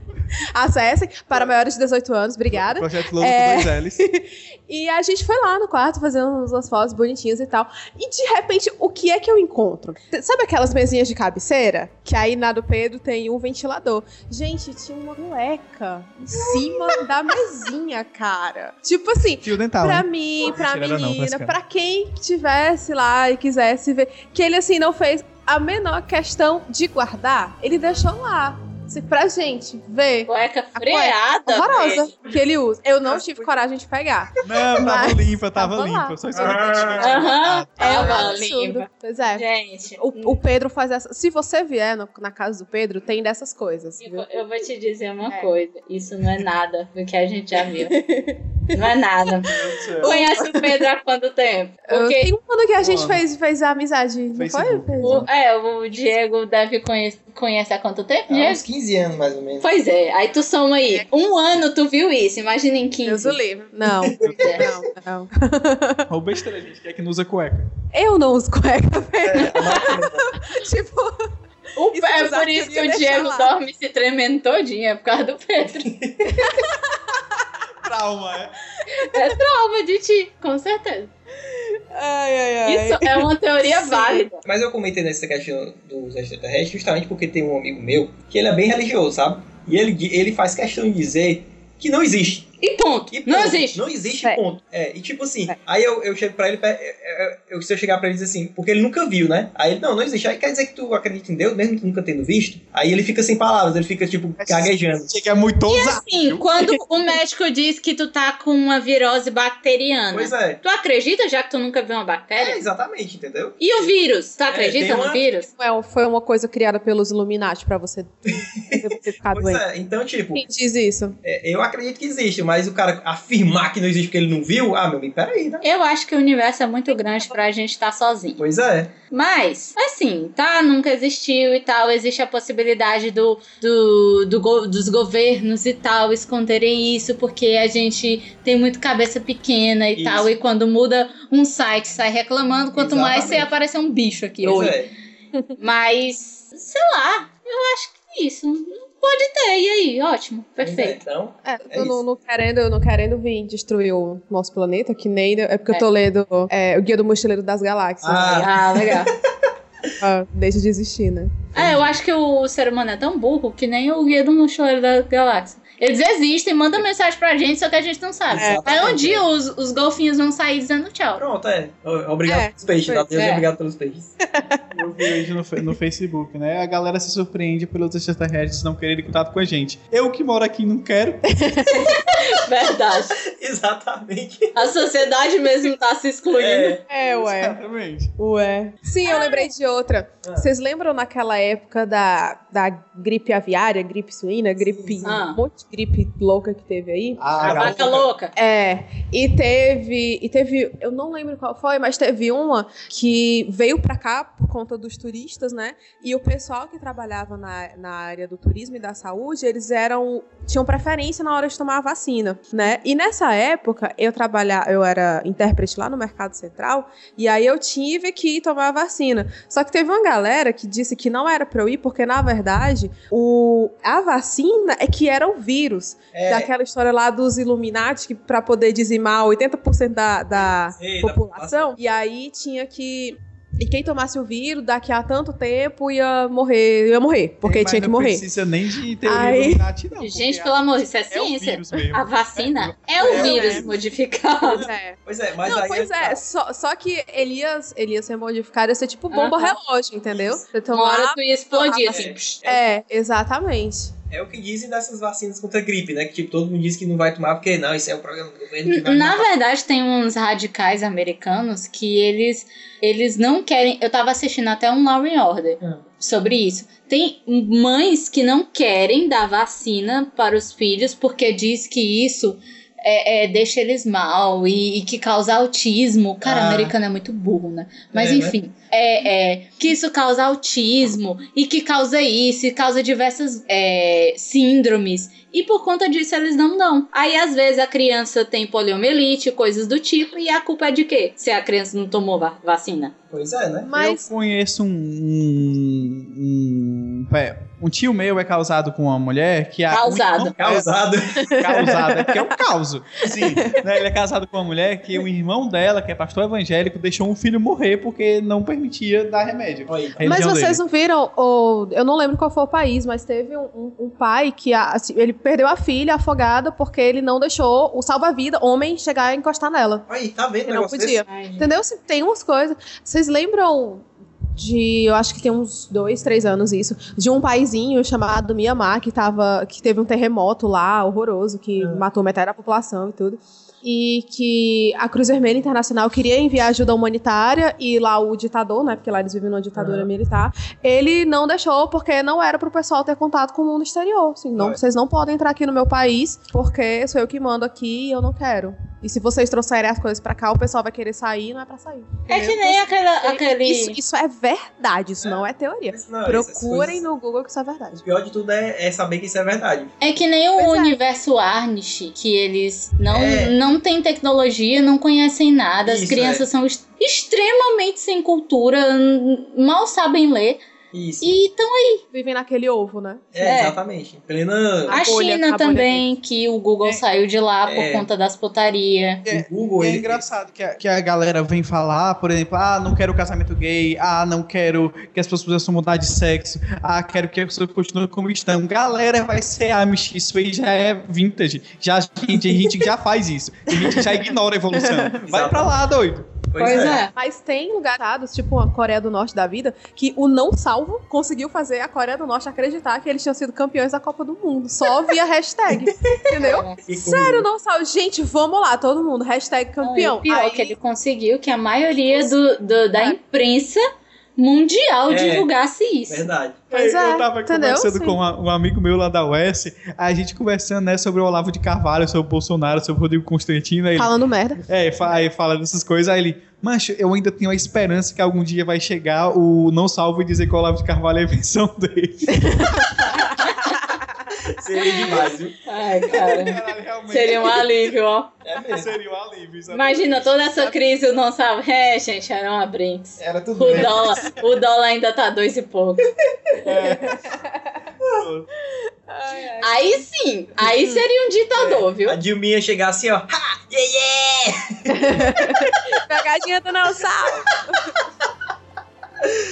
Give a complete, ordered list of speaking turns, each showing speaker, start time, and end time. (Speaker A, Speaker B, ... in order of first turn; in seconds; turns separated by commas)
Speaker A: 0.5-44.4, Speaker B: 2.5-4.0, Speaker B: 19.4-21.6, Speaker C: 30.3-32.1, Speaker D: 33.1-33.5, Speaker B: 34.4-38.1, Speaker D: 36.3-37.2, Speaker C: 37.0-40.4, Speaker D: 37.9-38.4, Speaker C: 44.0-48.0, Speaker A: 47.8-48.9, Speaker C: 48.7-52.3, Speaker B: 49.5-50.2, Speaker A: 49.5-50.8, Speaker A: 51.9-55.3, Speaker B: 52.8-53.2, Speaker B: 54.3-55.3, Speaker C: 55.0-58.6, Speaker D: 58.3-59.7, Speaker C: 59.6-63.4, Speaker A: 63.0-66.1, Speaker D: 63.9-64.8, Speaker C: 64.3-64.6, Speaker B: 66.1-67.7, Speaker A: 67.9-71.3, Speaker D: 69.2-70.4, Speaker C: 71.8-75.9, Speaker A: 71.9-73.5, Speaker D: 75.9-76.4, Speaker A: 76.2-77.4, Speaker B: 77.8-78.5, Speaker C: 78.9-81.1, Speaker A: 79.0-79.3, Speaker A: 81.5-84.3, Speaker C: 82.7-84.4, Speaker D: 84.4-92.5, Speaker C: 92.6-93.8, Speaker D: 93.1-105.1, Speaker B: 104.4-106.5, Speaker C: 105.7-112.6, Speaker D: 110.1-110.6, Speaker D: 112.4-113.9, Speaker C: 113.6-115.5, Speaker D: 114.5-115.2, Speaker A: 115.5-119.6, Speaker D: 118.4-120.4, Speaker A: 120.3-121.2, Speaker D: 121.2-125.7, Speaker C: 125.6-128.4, Speaker A: 127.0-127.3, Speaker D: 128.4-128.9, Speaker C: 129.1-144.8, Speaker D: 140.0-140.3, Speaker D: 142.8-143.5, Speaker D: 144.4-144.9, Speaker C: 145.6-151.0, Speaker D: 150.6-152.0, Speaker A: 151.5-158.5, Speaker D: 158.0-159.2, Speaker C: 158.2-159.1, Speaker A: 160.0-161.4, Speaker D: 161.6-161.9, Speaker C: 161.6-171.2, Speaker D: 168.3-169.2, Speaker A: 168.3-168.9, Speaker D: 171.2-174.1, Speaker A: 172.3-173.1, Speaker C: 173.1-173.4, Speaker A: 174.3-175.2, Speaker B: 174.7-181.6, Speaker A: 181.3-182.2, Speaker C: 181.7-183.2, Speaker D: 183.1-184.8, Speaker C: 184.6-186.8, Speaker D: 186.3-186.8, Speaker A: 186.9-187.6, Speaker B: 186.9-188.1, Speaker A: 188.2-197.4, Speaker C: 189.1-189.5, Speaker D: 190.2-190.5, Speaker D: 194.6-195.1, Speaker C: 195.0-195.4, Speaker B: 197.2-197.8, Speaker D: 197.4-198.1, Speaker C: 197.4-198.3, Speaker A: 198.3-238.2, Speaker D: 226.1-226.5, Speaker D: 230.3-231.8, Speaker B: 237.4-243.7, Speaker A: 239.1-239.6, Speaker C: 240.0-244.7, Speaker A: 243.0-243.7, Speaker D: 244.4-246.2, Speaker A: 244.6-253.9, Speaker C: 249.1-249.6, Speaker D: 250.1-250.4, Speaker C: 250.7-252.4, Speaker D: 251.9-252.6, Speaker D: 254.1-259.3, Speaker C: 258.7-292.9, Speaker D: 276.2-276.8, Speaker D: 277.9-278.4, Speaker D: 293.1-293.9, Speaker A: 293.6-294.1, Speaker B: 293.8-300.7, Speaker C: 299.7-300.4, Speaker D: 300.4-301.4, Speaker A: 301.2-302.3, Speaker B: 301.3-310.6, Speaker D: 303.0-303.6, Speaker D: 309.7-310.0, Speaker A: 310.0-319.9, Speaker D: 319.9-321.0, Speaker A: 320.5-357.9, Speaker C: 321.1-321.5, Speaker D: 331.6-331.9, Speaker D: 339.6-339.9, Speaker C: 352.1-353.8, Speaker D: 355.0-356.8, Speaker D: 357.8-359.8, Speaker C: 359.8-370.4, Speaker A: 360.4-360.8, Speaker D: 362.9-363.4, Speaker D: 365.7-366.3, Speaker D: 370.7-371.1, Speaker C: 371.0-371.8, Speaker A: 371.9-373.1, Speaker D: 373.1-374.9, Speaker C: 373.2-373.6, Speaker A: 374.7-375.9, Speaker C: 374.7-379.1, Speaker D: 377.4-377.9, Speaker B: 379.1-396.1, Speaker D: 379.1-380.0, Speaker A: 393.6-393.9, Speaker A: 394.5-395.0, Speaker D: 395.1-395.6, Speaker D: 396.3-396.9, Speaker C: 396.4-396.9, Speaker A: 396.9-410.6, Speaker D: 405.5-405.9, Speaker C: 406.2-406.6, Speaker D: 406.7-407.3, Speaker C: 409.6-413.6, Speaker A: 411.8-412.2, Speaker C: 414.2-416.1, Speaker D: 414.9-415.3, Speaker D: 415.9-416.4, Speaker A: 416.5-418.0, Speaker B: 416.5-423.9, Speaker A: 423.8-424.4, Speaker B: 424.4-432.6, Speaker A: 432.2-433.9, Speaker C: 433.0-433.6, Speaker D: 434.2-435.4, Speaker C: 435.4-438.1, Speaker B: 435.9-437.7, Speaker D: 438.2-438.8, Speaker B: 438.5-440.3, Speaker C: 439.5-445.9, Speaker D: 443.0-444.1, Speaker B: 446.4-447.1, Speaker A: 446.5-447.7, Speaker B: 448.0-448.3, Speaker A: 448.9-449.9, Speaker C: 449.4-452.0, Speaker A: 450.4-450.9, Speaker D: 451.4-455.6, Speaker A: 454.7-457.8